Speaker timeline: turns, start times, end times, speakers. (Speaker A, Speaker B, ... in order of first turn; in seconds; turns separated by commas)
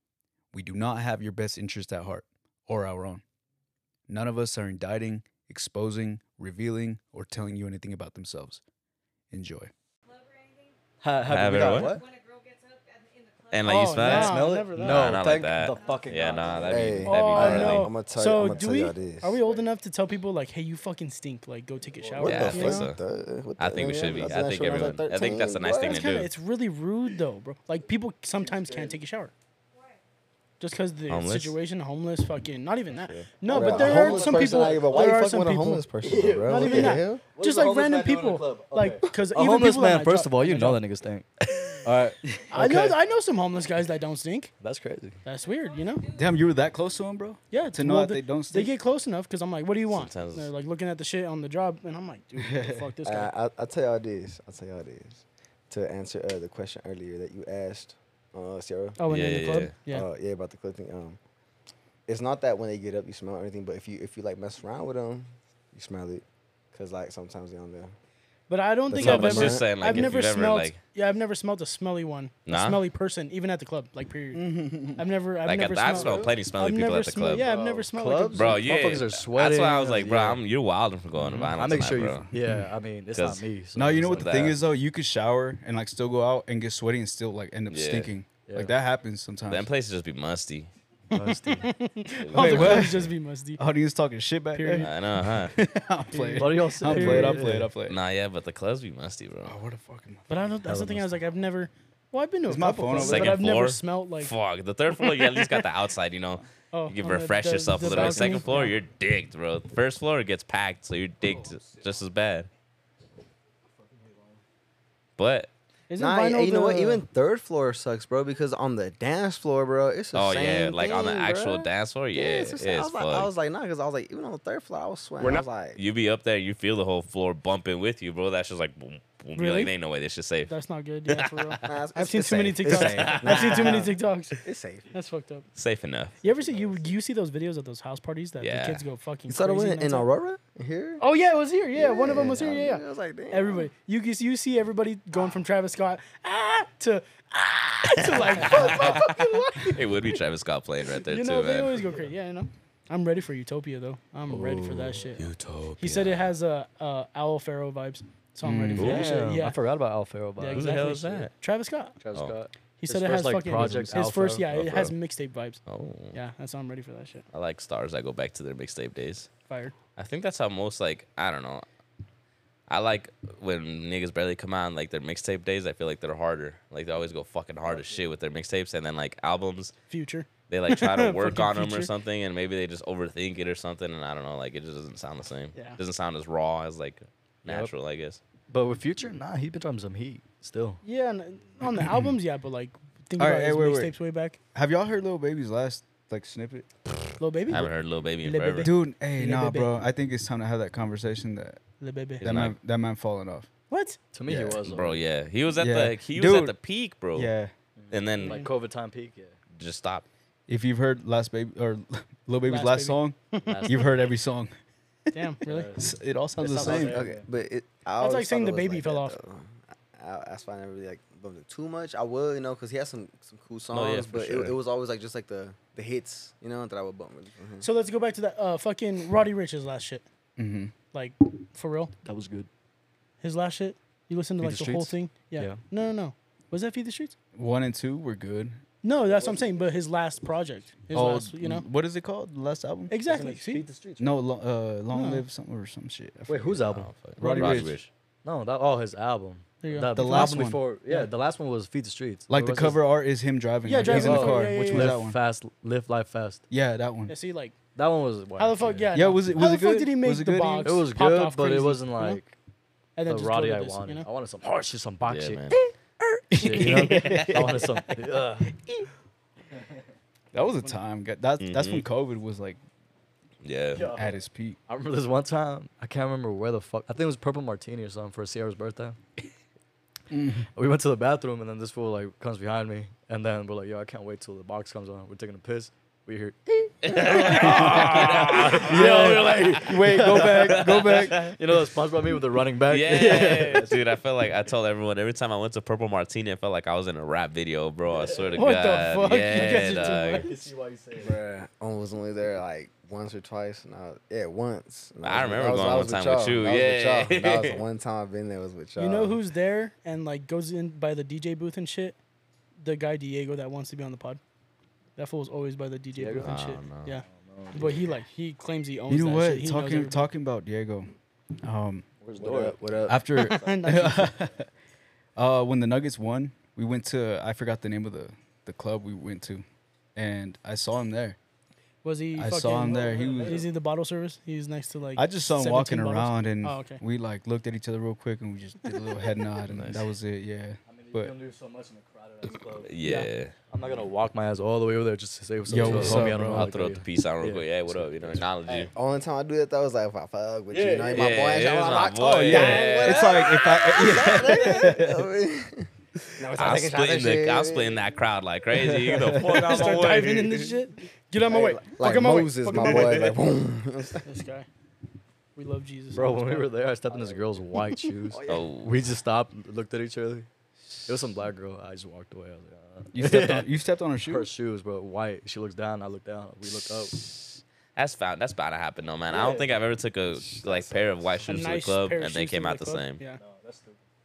Speaker A: 0.5-3.2, Speaker A: 4.1-8.6, Speaker A: 9.3-9.7, Speaker B: 11.0-12.0, Speaker C: 11.2-12.0, Speaker C: 13.5-17.9, Speaker D: 13.6-15.1, Speaker B: 14.0-16.9, Speaker E: 16.6-19.4, Speaker D: 17.0-22.9, Speaker B: 21.9-22.3, Speaker E: 22.2-26.0, Speaker C: 22.2-23.0, Speaker C: 23.6-26.3, Speaker D: 25.8-29.3, Speaker B: 28.4-29.0, Speaker D: 30.6-35.9, Speaker C: 31.1-31.6, Speaker C: 33.0-33.3, Speaker E: 33.5-37.2, Speaker B: 33.5-35.3, Speaker B: 36.0-41.3, Speaker D: 36.4-40.8, Speaker C: 41.5-41.8, Speaker B: 41.8-43.0, Speaker D: 42.5-44.5, Speaker B: 44.6-45.2, Speaker D: 45.2-46.0, Speaker A: 46.1-48.7, Speaker D: 47.5-53.3, Speaker C: 49.9-50.5, Speaker A: 52.4-52.9, Speaker E: 53.0-59.0, Speaker D: 59.0-60.1, Speaker C: 59.1-59.7, Speaker E: 59.9-61.2, Speaker E: 62.1-67.9, Speaker D: 68.5-78.6, Speaker E: 68.9-69.7, Speaker C: 69.0-70.8, Speaker C: 72.5-72.8, Speaker A: 74.3-75.0, Speaker C: 75.4-77.5, Speaker E: 75.9-76.3, Speaker B: 77.4-80.4, Speaker E: 77.5-78.4, Speaker C: 78.3-82.3, Speaker B: 81.2-84.5, Speaker A: 82.3-82.7, Speaker C: 83.1-83.4, Speaker A: 83.8-89.7, Speaker C: 84.0-84.6, Speaker C: 87.7-88.1, Speaker B: 88.5-88.7, Speaker C: 89.5-90.7, Speaker D: 91.1-93.6, Speaker B: 91.1-91.7, Speaker C: 92.2-93.1, Speaker A: 92.3-93.0, Speaker A: 93.6-98.0, Speaker D: 94.5-94.9, Speaker C: 94.8-95.5, Speaker D: 96.1-97.5, Speaker B: 96.4-97.7, Speaker C: 97.8-99.5, Speaker A: 99.4-100.6, Speaker D: 100.3-104.3, Speaker B: 100.6-101.2, Speaker A: 102.5-103.4, Speaker C: 102.9-112.5, Speaker D: 104.9-105.7, Speaker D: 106.7-108.8, Speaker B: 113.9-114.4, Speaker C: 115.2-115.5, Speaker D: 115.9-117.0, Speaker E: 116.0-125.8, Speaker C: 120.1-123.3, Speaker C: 125.2-130.5, Speaker D: 129.3-129.7, Speaker D: 130.4-134.4, Speaker C: 131.1-131.6, Speaker E: 131.7-133.9, Speaker C: 132.6-133.8, Speaker E: 134.4-134.9, Speaker D: 134.9-135.4, Speaker C: 135.6-136.2, Speaker D: 136.2-140.1, Speaker C: 138.4-138.8, Speaker E: 139.3-141.0, Speaker D: 141.0-150.2, Speaker E: 141.7-143.7, Speaker C: 147.9-152.1, Speaker D: 150.9-155.2, Speaker B: 154.3-155.0, Speaker C: 155.2-156.3, Speaker D: 155.8-159.6, Speaker A: 158.4-159.0, Speaker B: 158.8-160.9, Speaker C: 158.8-159.1, Speaker D: 160.4-162.0, Speaker C: 160.5-161.3, Speaker B: 162.0-164.7, Speaker D: 162.8-165.6, Speaker C: 164.5-164.9, Speaker C: 165.7-166.2, Speaker D: 166.1-167.2, Speaker C: 167.3-169.3, Speaker D: 169.5-169.7, Speaker C: 169.9-171.7, Speaker C: 172.7-179.7, Speaker B: 177.7-178.0, Speaker D: 179.9-181.9, Speaker C: 180.5-188.2, Speaker D: 185.5-185.8, Speaker B: 187.4-187.7, Speaker B: 188.5-190.8, Speaker D: 190.8-194.4, Speaker A: 191.8-192.1, Speaker A: 193.2-193.9, Speaker A: 194.5-196.7, Speaker C: 196.9-198.7, Speaker D: 197.2-199.8, Speaker A: 198.6-201.6, Speaker D: 201.8-202.2, Speaker C: 202.2-202.6, Speaker A: 202.2-203.5, Speaker D: 203.7-204.0, Speaker B: 204.1-205.0, Speaker A: 204.3-204.6, Speaker C: 204.6-207.3, Speaker A: 205.6-206.6, Speaker A: 207.1-207.5, Speaker B: 207.8-209.4, Speaker C: 207.9-208.4, Speaker D: 208.2-208.5, Speaker C: 209.5-210.1, Speaker A: 210.5-214.5, Speaker D: 212.4-213.8, Speaker B: 213.4-213.8, Speaker D: 215.1-215.7, Speaker B: 215.4-217.2, Speaker A: 215.8-217.0, Speaker E: 216.6-227.7, Speaker D: 218.0-219.2, Speaker C: 223.7-224.6, Speaker D: 227.6-230.0, Speaker A: 230.4-230.7, Speaker D: 230.9-231.9, Speaker B: 232.0-232.5, Speaker D: 233.2-237.1, Speaker B: 234.4-235.6, Speaker A: 237.3-238.6, Speaker D: 238.8-241.7, Speaker B: 239.2-239.4, Speaker A: 240.9-243.0, Speaker D: 242.9-243.6, Speaker B: 243.1-244.1, Speaker E: 243.6-244.0, Speaker A: 244.0-246.7, Speaker D: 244.9-245.2, Speaker B: 246.3-247.7, Speaker C: 246.7-247.9, Speaker A: 247.2-247.8, Speaker B: 248.2-252.8, Speaker D: 249.6-251.1, Speaker A: 249.9-250.6, Speaker A: 252.3-255.2, Speaker D: 253.7-255.0, Speaker B: 253.8-256.4, Speaker A: 256.5-257.1, Speaker D: 257.1-257.6, Speaker B: 257.7-259.1, Speaker D: 258.4-262.2, Speaker A: 258.9-260.8, Speaker B: 260.6-262.3, Speaker D: 262.9-264.1, Speaker B: 263.1-265.6, Speaker C: 265.1-265.6, Speaker A: 266.3-267.4, Speaker B: 266.4-268.5, Speaker C: 266.7-267.9, Speaker B: 269.5-269.8, Speaker A: 270.3-272.6, Speaker C: 271.4-271.8, Speaker C: 273.4-273.9, Speaker B: 273.7-279.0, Speaker A: 273.9-274.6, Speaker A: 280.1-280.5, Speaker B: 280.5-293.9, Speaker C: 286.8-291.3, Speaker A: 287.3-291.2, Speaker C: 292.7-300.3, Speaker B: 297.9-298.3, Speaker D: 298.3-300.5, Speaker B: 300.1-301.1, Speaker E: 300.9-309.2, Speaker C: 305.0-307.6, Speaker D: 308.8-312.0, Speaker D: 312.6-314.2, Speaker D: 315.0-320.1, Speaker B: 315.9-316.3, Speaker C: 316.2-317.0, Speaker B: 317.1-317.9, Speaker A: 318.9-320.9, Speaker A: 321.4-321.9, Speaker B: 322.0-322.9, Speaker E: 322.2-323.6, Speaker A: 322.9-324.5, Speaker D: 323.2-324.1, Speaker A: 325.1-329.4, Speaker A: 329.9-331.2, Speaker D: 331.8-336.8, Speaker A: 332.1-333.4, Speaker B: 332.7-333.5, Speaker A: 334.9-341.1, Speaker D: 338.7-339.1, Speaker C: 339.5-339.9, Speaker B: 340.7-342.7, Speaker C: 342.6-343.3, Speaker D: 342.8-343.1, Speaker B: 343.5-348.3, Speaker A: 345.5-346.5, Speaker C: 345.6-348.7, Speaker E: 348.5-352.2, Speaker B: 350.5-351.1, Speaker C: 350.9-353.8, Speaker A: 352.0-355.0, Speaker D: 352.2-353.0, Speaker E: 353.8-355.7, Speaker E: 356.2-357.8, Speaker C: 356.4-360.5, Speaker A: 358.6-359.4, Speaker D: 359.2-363.2, Speaker E: 361.3-364.0, Speaker D: 364.0-364.5, Speaker D: 365.4-366.5, Speaker B: 365.9-370.3, Speaker E: 366.9-367.2, Speaker D: 367.6-367.9, Speaker E: 368.1-368.5, Speaker C: 368.2-368.7, Speaker B: 370.9-377.0, Speaker A: 372.9-374.3, Speaker C: 376.9-383.0, Speaker B: 379.1-381.2, Speaker D: 381.2-383.2, Speaker B: 383.1-383.8